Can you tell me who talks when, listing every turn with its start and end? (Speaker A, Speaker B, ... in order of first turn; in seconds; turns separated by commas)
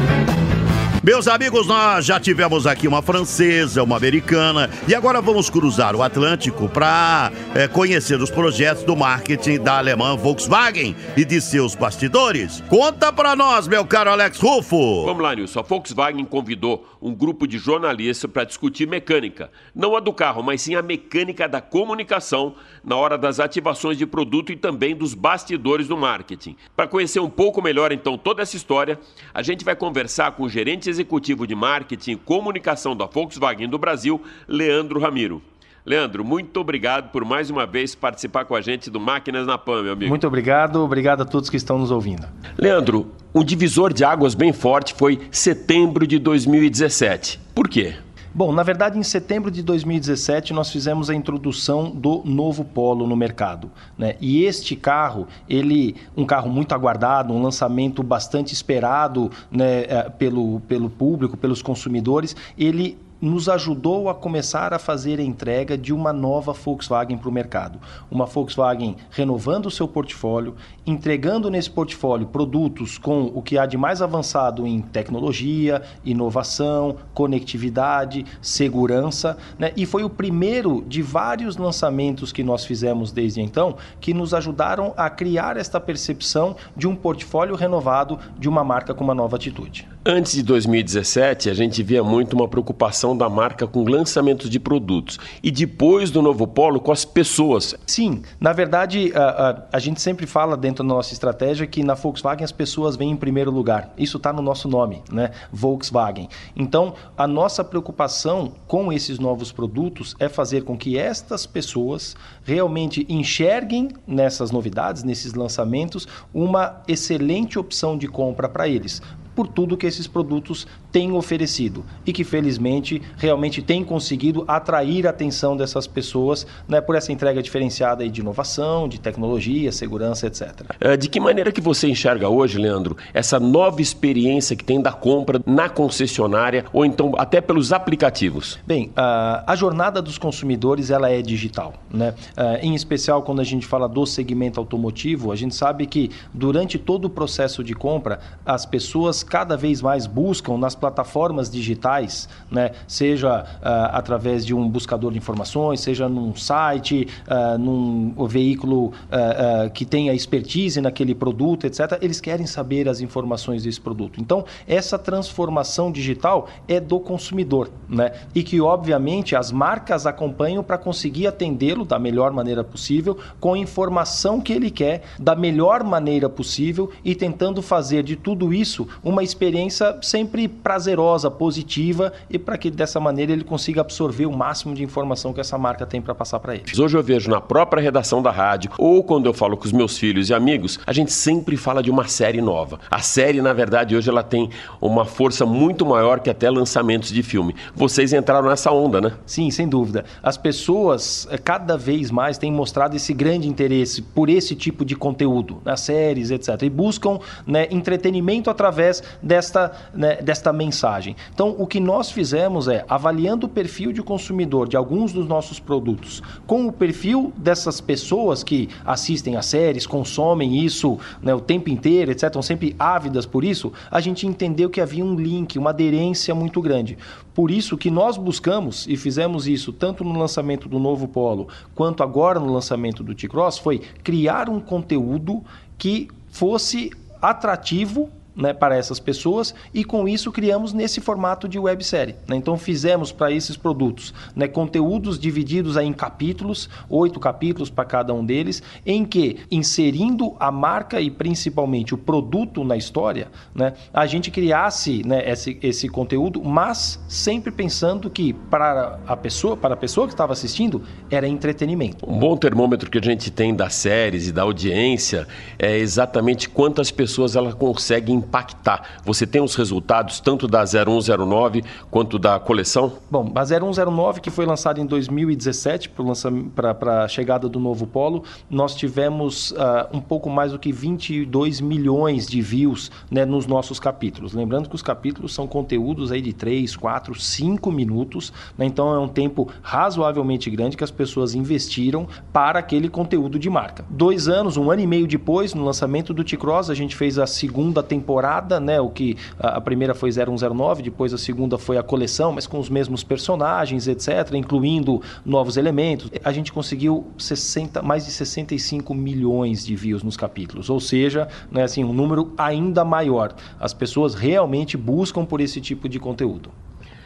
Speaker A: 1.0-15.1, Speaker B: 15.0-40.2, Speaker C: 40.0-42.3, Speaker B: 42.6-48.0, Speaker C: 48.3-89.9, Speaker B: 90.0-97.8, Speaker C: 97.9-130.7, Speaker B: 130.8-138.6, Speaker C: 138.7-186.7, Speaker B: 186.7-199.2, Speaker C: 199.3-262.1, Speaker B: 262.1-273.0, Speaker C: 273.1-316.5